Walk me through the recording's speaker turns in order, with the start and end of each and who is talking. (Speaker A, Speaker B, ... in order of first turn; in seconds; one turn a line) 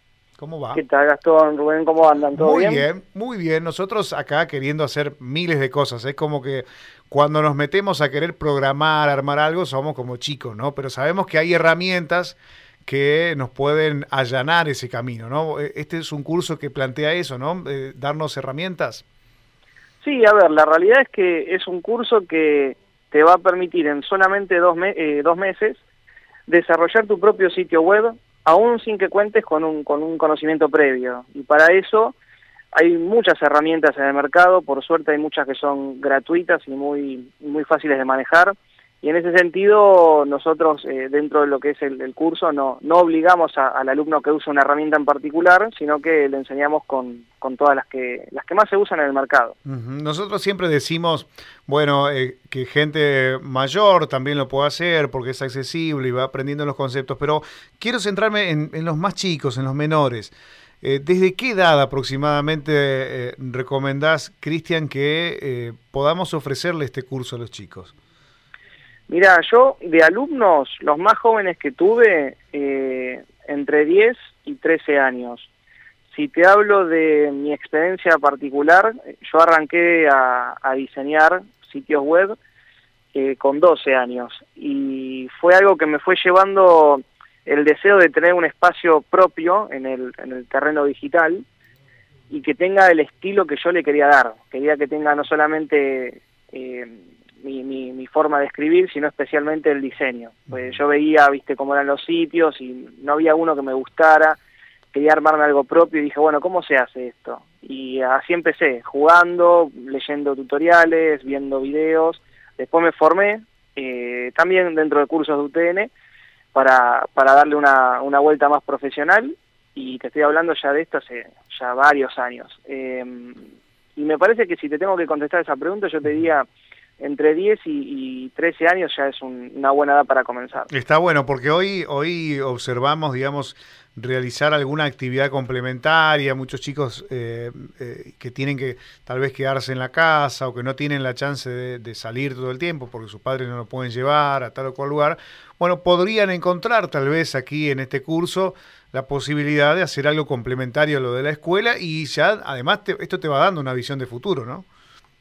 Speaker A: 0.4-0.8
Speaker B: 0.7-2.9
Speaker A: 2.4-19.0
Speaker B: 20.0-25.8
Speaker B: 26.5-32.2
Speaker B: 32.7-49.5
Speaker A: 49.6-67.9
Speaker B: 69.1-75.5
Speaker B: 76.1-82.4
Speaker B: 83.1-91.5
Speaker B: 92.3-104.4
Speaker B: 104.9-115.9
Speaker B: 116.5-126.5
Speaker B: 127.0-130.7
Speaker A: 130.7-154.7